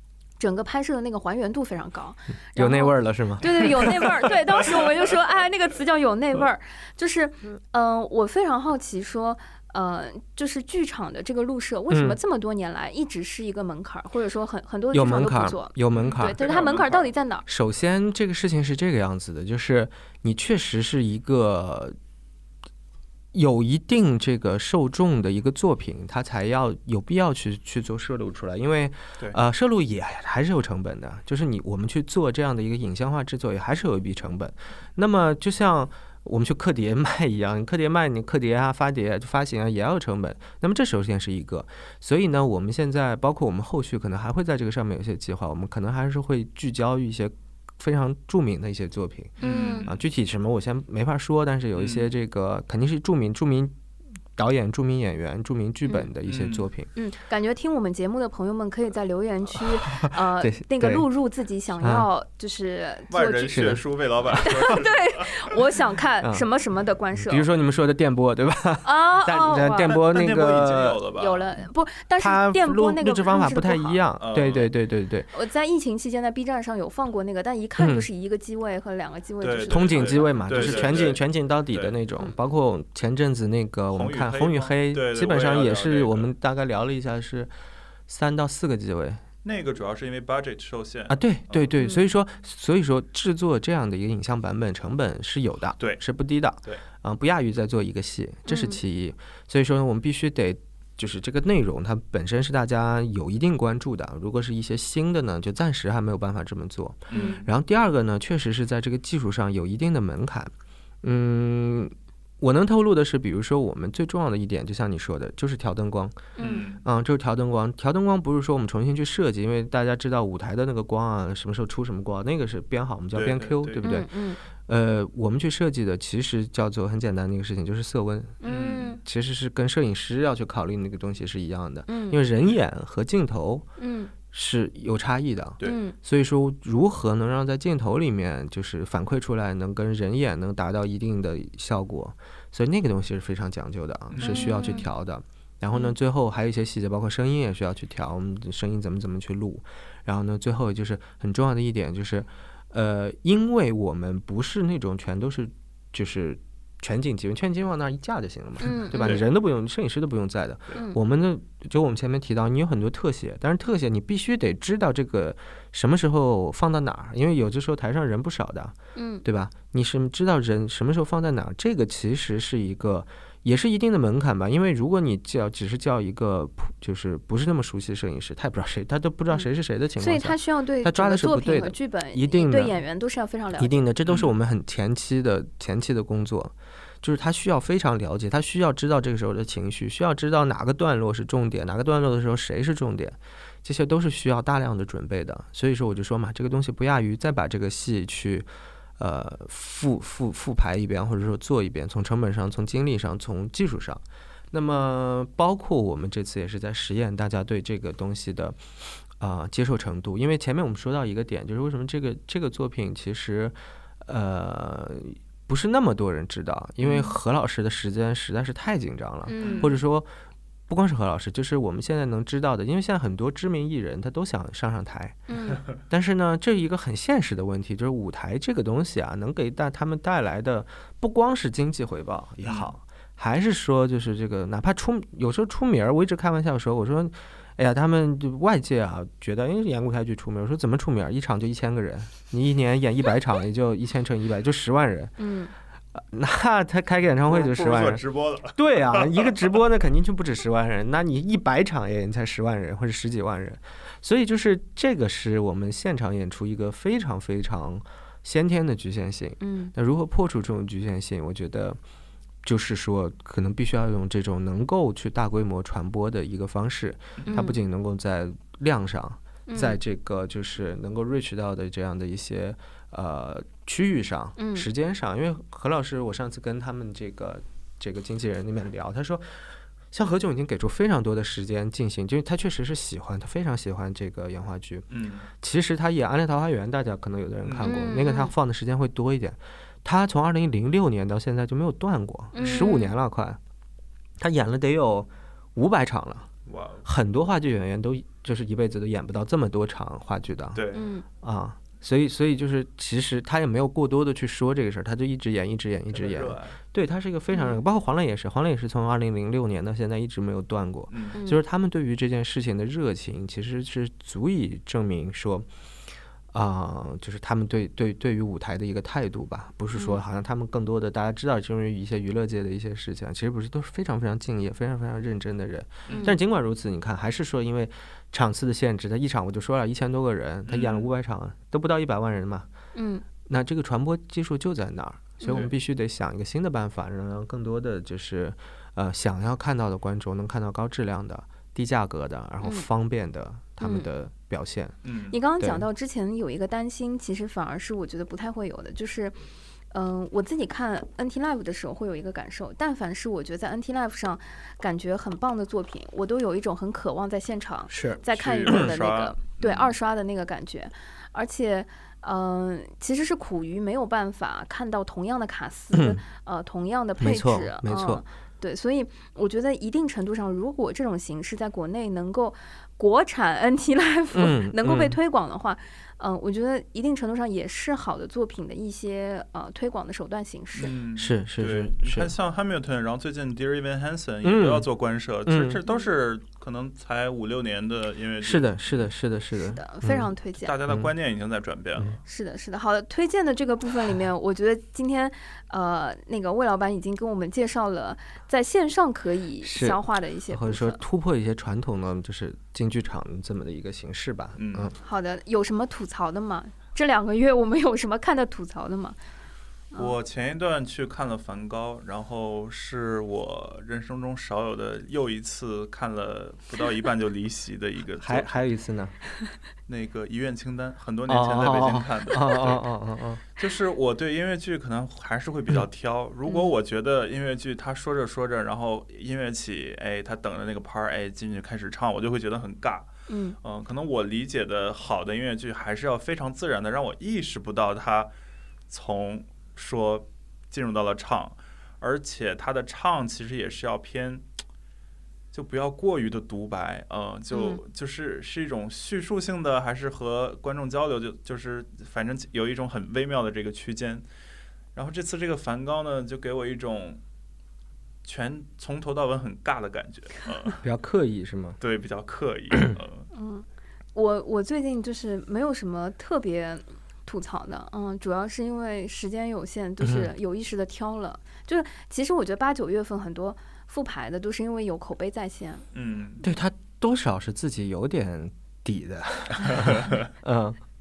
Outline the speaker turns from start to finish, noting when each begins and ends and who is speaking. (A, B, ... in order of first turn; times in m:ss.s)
0:00.4-0:17.5 A
0:02.6-0:04.3 B
0:11.9-0:12.2 B
0:14.9-0:16.4 B
0:15.9-0:17.1 C
0:17.4-0:22.0 B
0:23.3-0:53.7 B
0:49.4-0:50.0 C
0:49.4-0:49.9 A
0:51.7-0:52.1 C
0:54.4-0:56.9 B
0:55.8-0:56.1 A
0:56.2-0:56.7 C
0:56.9-1:03.8 A
0:59.9-1:01.0 B
1:01.8-1:02.1 B
1:03.1-1:05.4 C
1:03.5-1:04.7 B
1:04.4-1:07.5 A
1:07.2-1:11.0 B
1:08.8-1:10.0 A
1:09.9-1:11.5 C
1:11.1-1:14.0 A
1:12.2-1:15.3 B
1:14.2-1:14.7 C
1:15.3-1:21.1 A
1:17.8-1:18.1 B
1:19.4-1:21.9 C
1:19.7-1:27.5 B
1:23.9-1:26.3 C
1:28.1-1:29.2 B
1:29.4-1:31.7 C
1:31.1-1:50.5 B
1:31.8-1:32.0 A
1:38.5-1:38.8 A
1:47.1-1:47.4 C
1:47.1-1:47.4 A
1:51.0-2:04.1 B
1:56.4-1:56.7 A
1:56.4-1:56.8 C
2:03.1-2:03.8 C
2:03.8-2:04.4 A
2:04.7-2:08.4 B
2:08.4-2:09.0 A
2:08.5-2:09.0 C
2:09.0-2:13.7 B
2:11.9-2:12.2 A
2:13.8-2:14.1 A
2:14.3-3:02.8 B
2:15.6-2:15.9 A
2:24.1-2:24.8 C
2:24.2-2:24.8 A
2:38.6-2:39.2 A
2:38.9-2:39.2 C
2:48.9-2:49.2 A
3:00.0-3:03.8 A
3:03.6-3:18.5 B
3:04.1-3:04.3 C
3:19.0-3:28.6 B
3:29.2-3:40.1 B
3:39.2-3:39.8 A
3:39.4-3:39.7 C
3:40.7-4:05.1 B
3:45.3-3:45.6 A
3:52.4-3:52.7 C
4:05.2-4:05.5 A
4:05.9-4:21.8 B
4:07.2-4:09.4 C
4:19.4-4:19.7 A
4:22.4-4:53.4 B
4:27.3-4:27.6 A
4:29.5-4:29.8 A
4:34.4-4:34.7 A
4:44.9-4:45.3 C
4:47.4-4:47.8 C
4:47.6-4:48.3 A
4:52.3-4:52.9 A
4:52.4-4:52.7 C
4:54.2-4:56.3 B
4:56.5-4:56.8 C
4:56.8-5:00.6 B
5:00.5-5:00.9 C
5:00.7-5:01.0 A
5:01.2-5:15.5 B
5:05.9-5:06.6 C
5:07.3-5:07.6 A
5:10.9-5:11.2 C
5:11.1-5:11.4 A
5:16.3-5:32.5 B
5:19.7-5:20.0 A
5:25.9-5:26.1 C
5:25.9-5:26.2 A
5:30.5-5:30.9 C
5:32.7-5:33.0 A
5:33.2-5:44.8 B
5:35.2-5:35.5 C
5:42.4-5:42.7 A
5:43.6-5:43.9 A
5:44.8-5:45.2 C
5:45.1-5:49.2 A
5:45.4-5:45.6 B
5:49.7-6:20.7 A
5:57.7-5:58.7 B
5:58.1-5:59.7 C
6:05.7-6:06.0 B
6:07.0-6:08.0 B
6:14.1-6:15.0 B
6:20.6-6:28.6 C
6:20.9-6:22.1 B
6:24.2-6:24.7 B
6:25.2-6:25.6 B
6:28.2-6:30.1 B
6:29.4-6:30.6 A
6:30.4-6:32.0 C
6:30.7-6:30.9 B
6:32.0-6:40.8 A
6:39.4-6:44.7 B
6:44.4-6:44.7 C
6:44.8-6:49.0 A
6:49.7-6:58.4 C
6:58.0-6:58.9 B
6:59.7-7:02.6 C
7:01.1-7:03.2 B
7:03.4-7:12.9 C
7:06.3-7:06.5 A
7:13.1-7:13.4 A
7:13.4-7:18.1 C
7:18.7-7:24.3 C
7:25.3-7:34.0 C
7:27.3-7:27.6 A
7:34.7-7:37.0 C
7:38.0-7:40.6 C
7:40.6-7:41.6 B
7:41.6-7:43.1 C
7:43.1-7:55.6 A
7:49.8-7:50.1 B
7:55.7-7:56.2 C
7:56.2-8:00.6 B
7:59.4-8:00.0 C